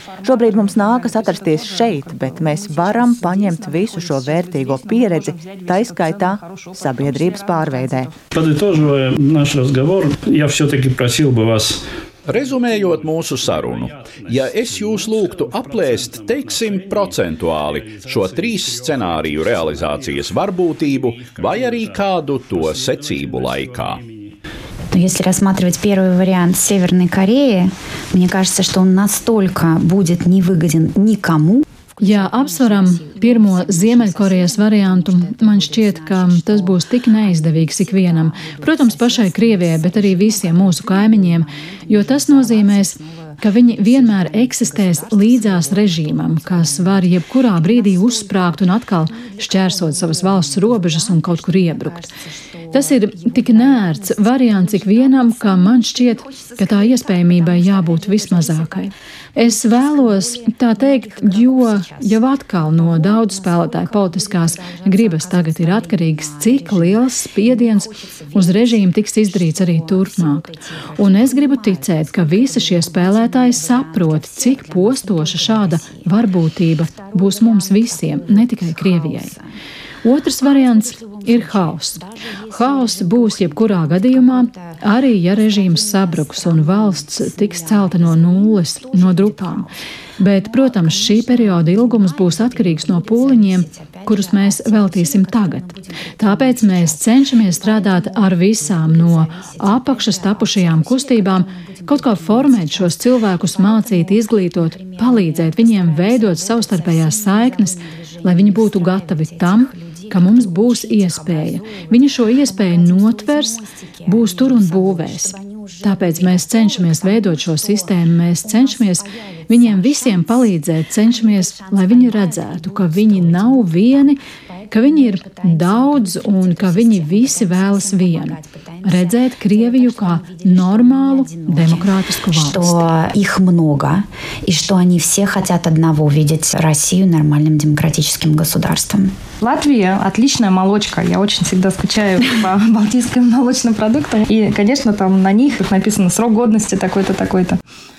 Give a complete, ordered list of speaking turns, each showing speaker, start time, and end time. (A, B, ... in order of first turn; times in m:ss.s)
0:00.2-0:08.1 A
0:08.3-0:11.8 B
0:12.3-0:24.0 C
0:16.0-0:16.5 B
0:22.8-0:23.8 B
0:24.9-0:31.6 D
0:32.0-0:52.1 E
0:52.7-1:19.4 E
1:20.0-1:29.7 E
1:30.2-2:12.8 E
2:12.3-2:19.1 D
2:19.4-2:27.6 F